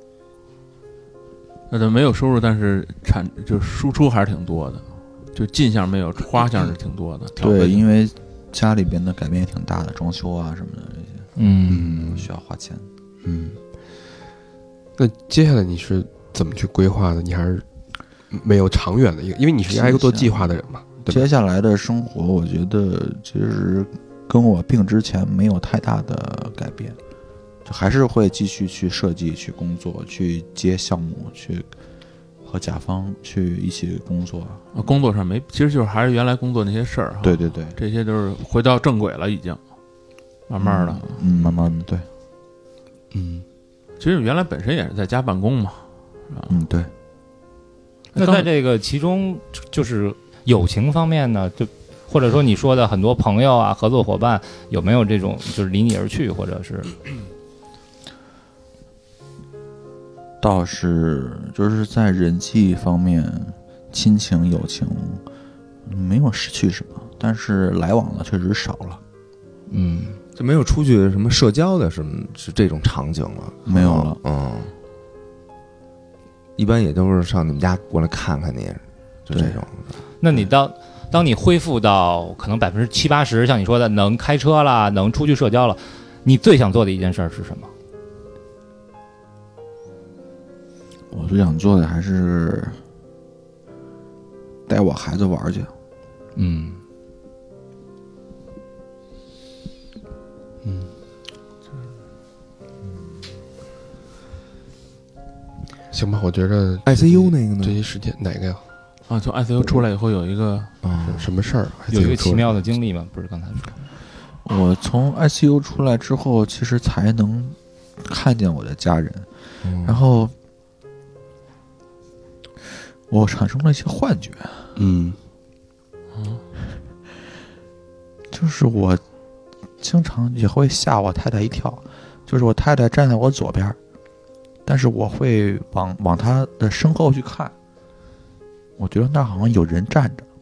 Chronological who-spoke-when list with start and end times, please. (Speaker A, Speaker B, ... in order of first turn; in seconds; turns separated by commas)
Speaker A: 1.7-7.8, Speaker B: 7.4-12.9, Speaker C: 11.3-11.8, Speaker D: 11.7-12.0, Speaker D: 13.2-13.6, Speaker D: 15.0-17.6, Speaker D: 18.3-21.3, Speaker B: 19.7-20.5, Speaker B: 21.0-27.0, Speaker B: 27.6-31.7, Speaker B: 32.4-34.7, Speaker A: 34.7-39.6, Speaker B: 37.2-37.8, Speaker A: 40.5-41.5, Speaker B: 40.6-42.0, Speaker D: 43.1-43.4, Speaker A: 44.0-46.6, Speaker B: 46.5-46.9, Speaker A: 48.1-48.5, Speaker C: 48.1-57.1, Speaker B: 60.4-65.2, Speaker B: 65.8-69.0, Speaker C: 69.7-70.2, Speaker E: 70.3-74.7, Speaker B: 73.6-74.2, Speaker E: 76.6-80.5, Speaker C: 80.2-87.7, Speaker B: 91.1-92.8, Speaker B: 94.7-95.7, Speaker C: 96.3-96.8, Speaker D: 100.6-100.9, Speaker D: 105.9-108.6, Speaker E: 106.8-107.8, Speaker A: 109.1-110.7, Speaker E: 110.8-111.3, Speaker D: 111.0-112.5, Speaker C: 111.9-113.8, Speaker B: 114.4-119.3, Speaker E: 119.6-120.0, Speaker B: 119.8-120.3, Speaker B: 123.1-124.7, Speaker D: 124.8-125.2, Speaker A: 126.1-126.4, Speaker B: 128.3-129.0, Speaker B: 129.8-133.8, Speaker B: 134.7-137.5, Speaker B: 138.8-140.2